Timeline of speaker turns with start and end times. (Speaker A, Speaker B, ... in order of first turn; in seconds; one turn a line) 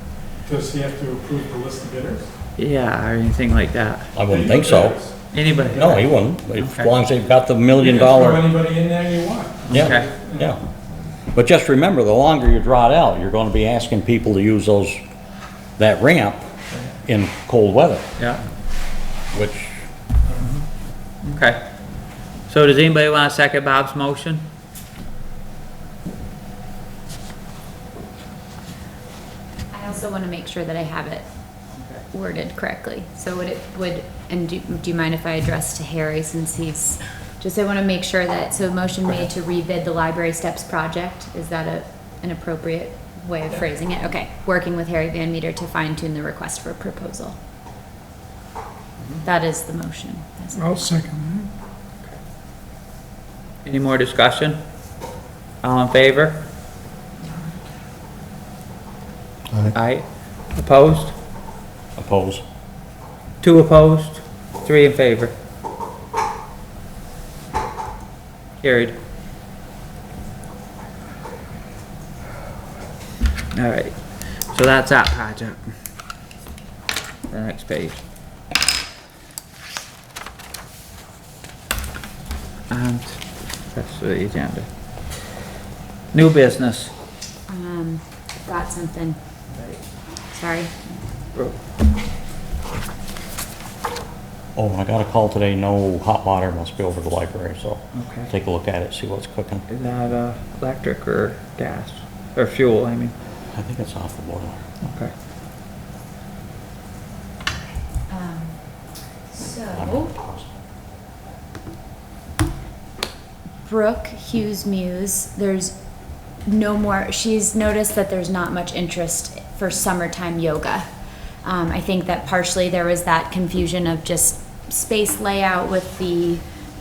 Speaker A: 0.4-2.3
Speaker B: 2.6-4.1
Speaker C: 4.1-8.5
Speaker A: 4.3-5.9
Speaker B: 5.3-6.9
Speaker A: 7.8-10.5
Speaker C: 9.7-10.6
Speaker B: 9.7-10.1
Speaker C: 11.3-15.0
Speaker C: 15.8-16.4
Speaker C: 17.0-18.0
Speaker B: 18.2-18.4
Speaker C: 19.3-19.8
Speaker A: 20.2-20.5
Speaker B: 21.2-21.7
Speaker B: 22.4-24.4
Speaker D: 29.7-31.3
Speaker D: 32.1-47.4
Speaker D: 49.2-50.9
Speaker A: 50.9-51.3
Speaker B: 53.6-54.6
Speaker B: 55.6-56.5
Speaker B: 59.7-61.1
Speaker C: 62.0-62.4
Speaker B: 63.4-65.3
Speaker B: 68.6-69.0
Speaker B: 73.5-75.7
Speaker B: 77.3-78.0
Speaker B: 82.7-84.7
Speaker B: 86.1-86.9
Speaker D: 87.5-89.2
Speaker B: 89.5-89.8
Speaker D: 90.3-90.8
Speaker C: 94.5-99.7
Speaker B: 97.9-98.3
Speaker B: 99.7-103.1
Speaker C: 103.5-104.6
Speaker B: 104.8-105.1
Speaker D: 108.1-108.6
Speaker D: 109.3-110.1
Speaker C: 109.7-110.5
Speaker D: 113.7-120.8
Speaker D: 121.4-126.4